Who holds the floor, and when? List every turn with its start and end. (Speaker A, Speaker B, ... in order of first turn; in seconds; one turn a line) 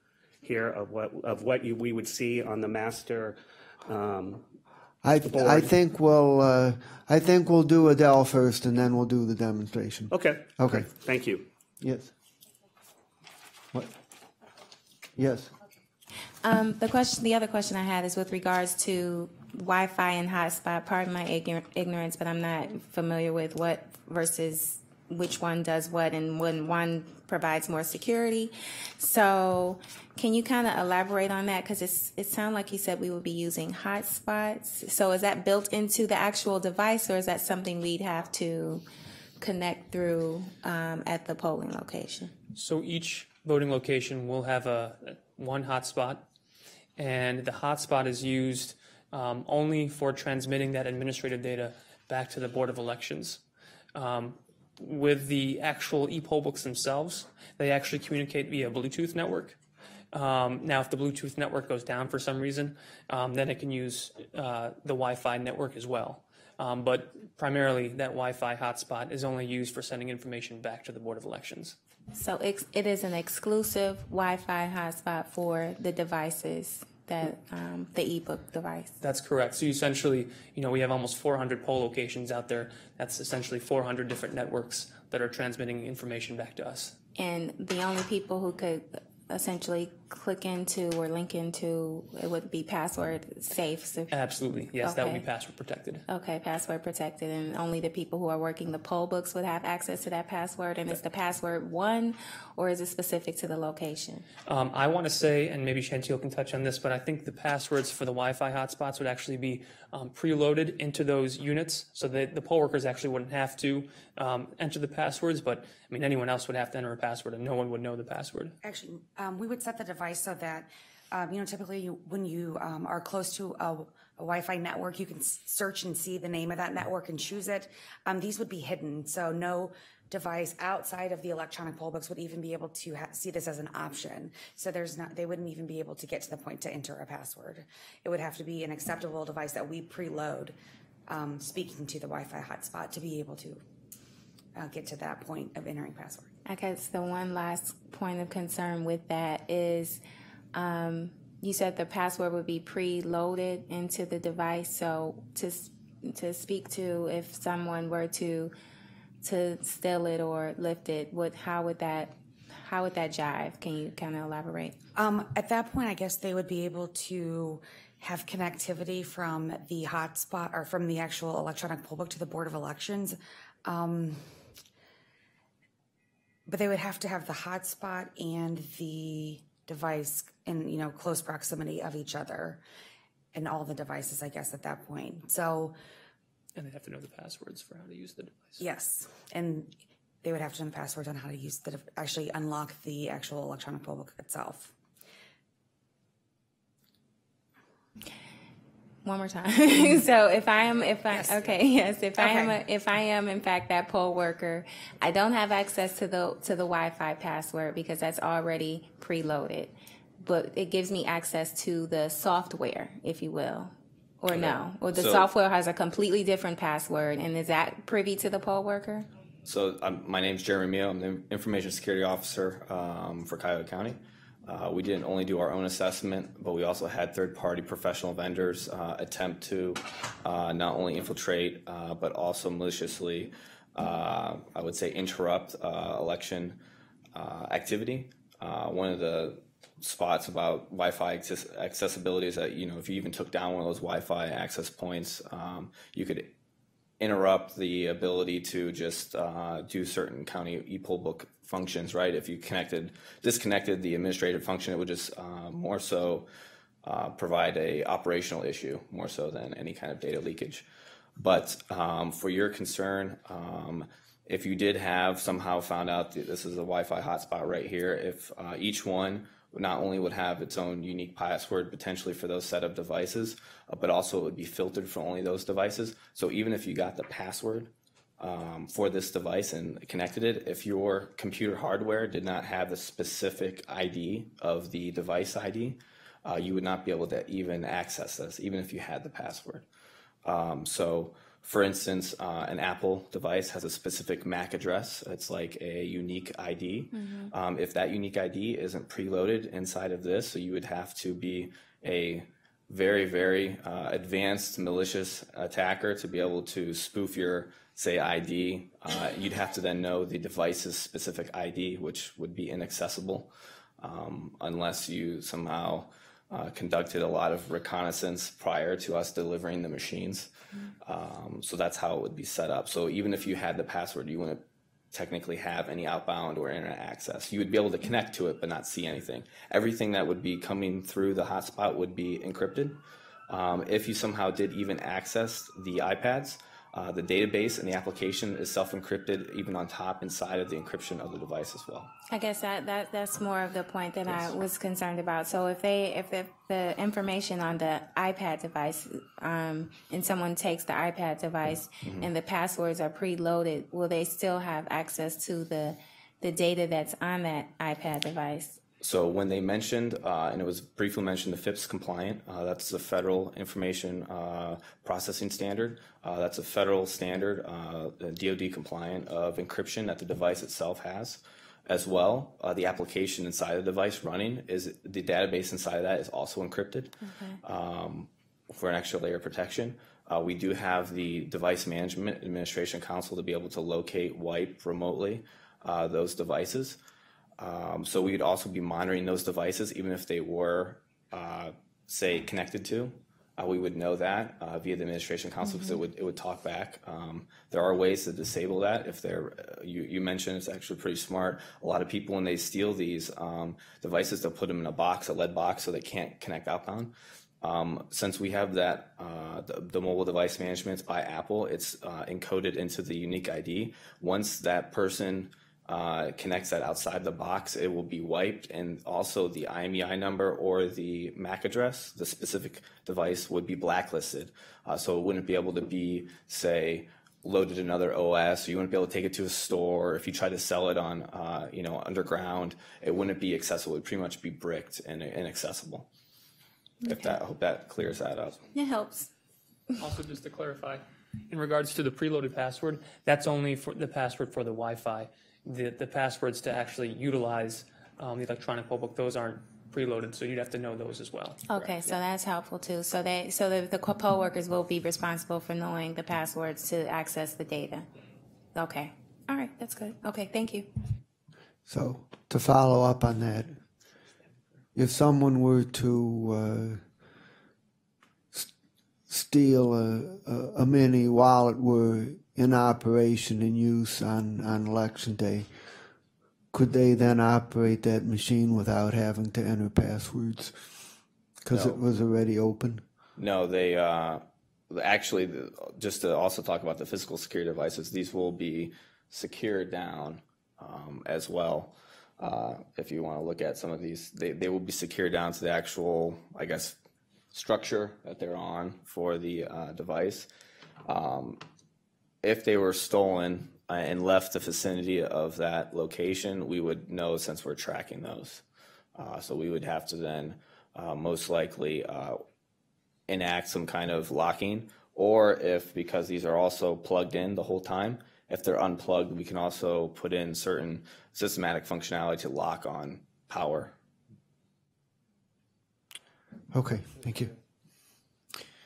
Speaker A: 0.4-4.4
Speaker B: 5.0-10.9
Speaker A: 5.3-5.7
Speaker A: 10.1-11.4
Speaker B: 11.8-12.1
Speaker B: 15.2-15.5
Speaker C: 16.4-38.8
Speaker C: 39.4-42.3
Speaker D: 42.5-46.2
Speaker D: 47.0-53.4
Speaker D: 53.9-59.6
Speaker D: 60.1-71.8
Speaker C: 72.1-79.0
Speaker D: 79.0-87.0
Speaker C: 87.2-94.1
Speaker D: 94.1-96.0
Speaker C: 94.8-95.2
Speaker C: 96.1-104.2
Speaker D: 104.5-118.5
Speaker E: 118.6-140.5
Speaker E: 141.1-143.6
Speaker E: 144.6-146.3
Speaker C: 146.4-150.0
Speaker C: 150.5-158.5
Speaker C: 159.2-164.8
Speaker E: 164.9-174.2
Speaker E: 176.4-182.6
Speaker E: 183.3-185.8
Speaker D: 186.6-188.6
Speaker E: 188.6-194.7
Speaker C: 199.0-219.1
Speaker E: 201.1-201.5
Speaker E: 202.2-202.6
Speaker F: 214.3-215.3
Speaker F: 219.4-236.6
Speaker F: 237.1-246.3
Speaker F: 247.0-256.2
Speaker F: 256.8-260.6
Speaker F: 261.2-289.7
Speaker F: 290.2-320.3
Speaker C: 296.9-297.3
Speaker F: 320.8-332.8
Speaker F: 333.3-341.9
Speaker C: 342.1-358.6
Speaker F: 358.8-386.8
Speaker C: 377.0-377.4
Speaker F: 387.4-435.9
Speaker C: 395.4-395.8
Speaker C: 436.8-437.2
Speaker F: 436.9-438.4
Speaker C: 438.5-439.1
Speaker D: 439.8-451.4
Speaker C: 451.5-457.9
Speaker F: 451.5-451.8
Speaker C: 458.5-460.7
Speaker B: 461.7-463.6
Speaker B: 464.8-466.8
Speaker B: 469.1-475.5
Speaker B: 476.5-480.5
Speaker B: 481.4-482.8
Speaker F: 483.2-496.8
Speaker F: 497.3-500.3
Speaker F: 500.8-501.4
Speaker F: 502.2-508.4
Speaker F: 508.9-512.2
Speaker F: 513.1-523.7
Speaker B: 526.5-527.3